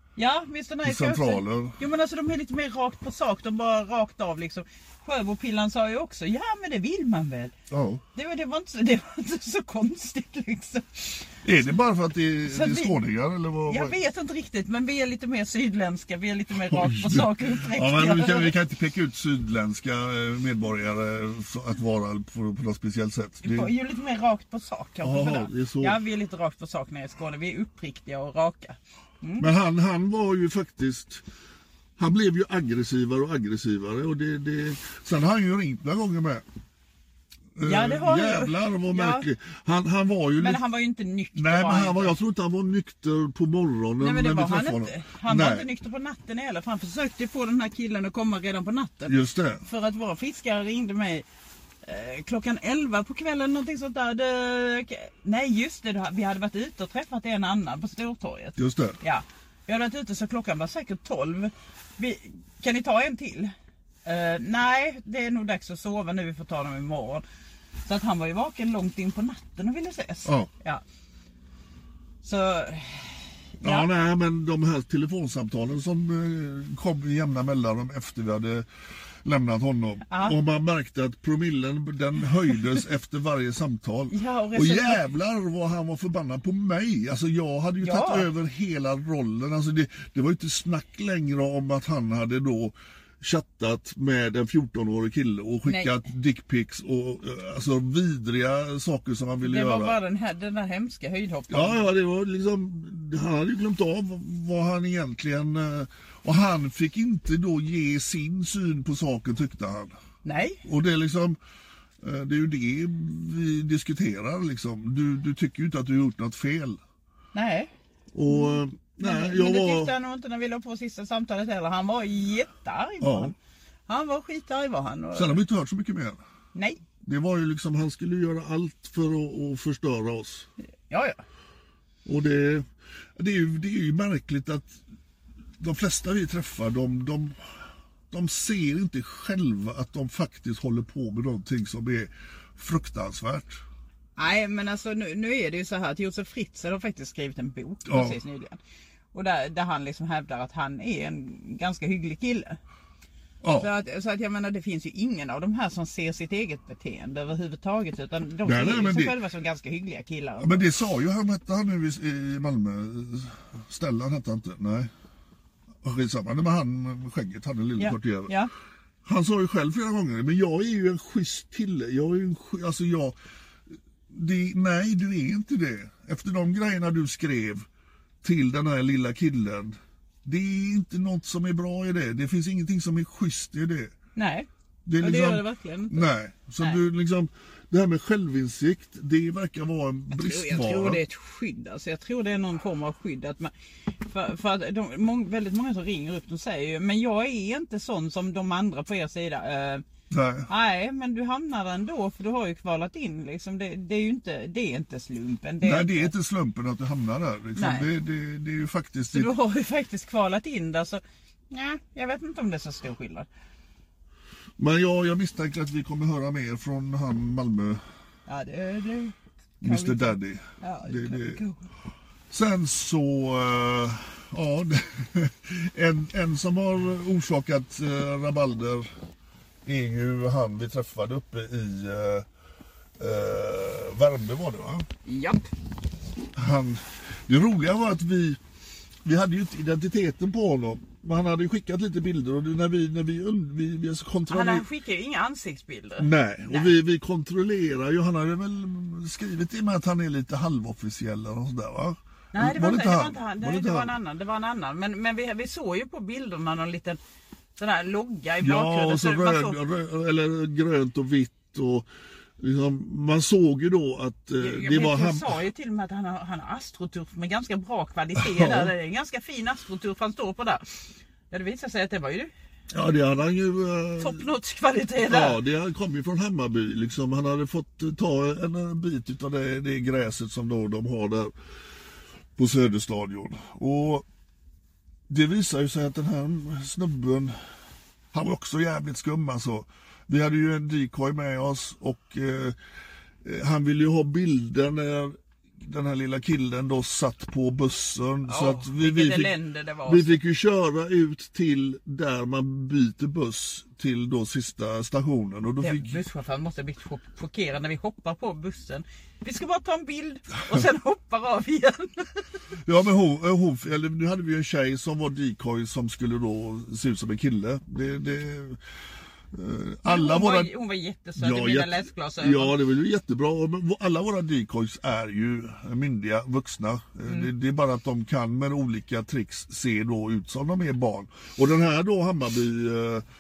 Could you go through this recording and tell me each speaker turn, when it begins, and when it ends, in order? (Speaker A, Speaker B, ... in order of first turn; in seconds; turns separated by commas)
Speaker A: 0.2-7.5, Speaker B: 0.8-1.8, Speaker B: 7.7-8.0, Speaker A: 8.2-11.3, Speaker B: 11.4-14.0, Speaker A: 12.5-13.0, Speaker A: 13.7-18.5, Speaker B: 16.6-23.7, Speaker A: 23.4-29.5, Speaker B: 25.0-26.0, Speaker B: 29.4-31.2, Speaker B: 32.0-36.4, Speaker B: 37.6-40.6, Speaker A: 37.6-39.3, Speaker A: 40.4-42.1, Speaker B: 41.4-45.7, Speaker A: 44.0-51.2, Speaker B: 49.1-49.6, Speaker A: 51.8-63.5, Speaker B: 58.6-59.0, Speaker A: 64.0-67.2, Speaker A: 67.9-70.8, Speaker B: 70.2-70.5, Speaker A: 72.2-73.9, Speaker B: 73.6-78.7, Speaker B: 79.2-100.0, Speaker A: 80.1-80.4, Speaker A: 84.1-85.0, Speaker A: 87.8-88.3, Speaker A: 95.7-96.0, Speaker A: 99.4-101.9, Speaker B: 101.5-110.0, Speaker A: 110.2-110.6, Speaker B: 110.6-111.4, Speaker B: 112.0-116.8, Speaker A: 117.3-117.7, Speaker B: 118.1-120.0, Speaker A: 118.3-123.3, Speaker B: 123.0-123.3, Speaker A: 123.9-125.4, Speaker B: 125.1-126.2, Speaker A: 126.5-126.8, Speaker B: 127.0-130.5, Speaker A: 130.9-131.2, Speaker B: 132.1-134.8, Speaker B: 135.6-143.6, Speaker A: 144.2-148.6, Speaker B: 147.9-148.2, Speaker A: 149.1-152.6, Speaker B: 153.4-153.7, Speaker A: 153.6-160.7, Speaker B: 158.4-159.2, Speaker B: 160.4-164.9, Speaker B: 165.8-168.3, Speaker A: 167.8-168.5, Speaker B: 169.1-173.2, Speaker B: 174.1-177.7, Speaker B: 178.2-183.9, Speaker A: 184.2-184.5, Speaker B: 184.9-191.0, Speaker A: 185.0-186.1, Speaker A: 190.1-199.8, Speaker B: 200.1-200.5, Speaker A: 200.5-206.1, Speaker B: 205.6-209.3, Speaker A: 207.6-207.9, Speaker A: 209.1-213.3, Speaker B: 214.6-217.8, Speaker A: 218.3-221.6, Speaker B: 219.6-221.4, Speaker B: 222.3-228.9, Speaker B: 229.7-232.3, Speaker B: 233.0-234.9, Speaker A: 235.1-235.5, Speaker B: 236.3-238.4, Speaker B: 239.1-244.7, Speaker A: 244.3-246.8, Speaker B: 246.0-253.9, Speaker A: 252.3-257.0, Speaker A: 257.6-259.6, Speaker B: 258.4-265.4, Speaker A: 264.4-270.7, Speaker B: 268.2-268.7, Speaker A: 271.3-272.3, Speaker B: 272.7-274.2, Speaker A: 274.0-275.4, Speaker B: 275.0-281.3, Speaker B: 282.4-284.1, Speaker B: 285.1-287.4, Speaker B: 288.1-292.6, Speaker B: 293.2-299.3, Speaker A: 298.3-300.2, Speaker B: 299.9-306.0, Speaker A: 305.6-312.3, Speaker B: 312.6-318.6, Speaker B: 319.3-320.5, Speaker A: 319.9-322.6, Speaker B: 321.2-333.1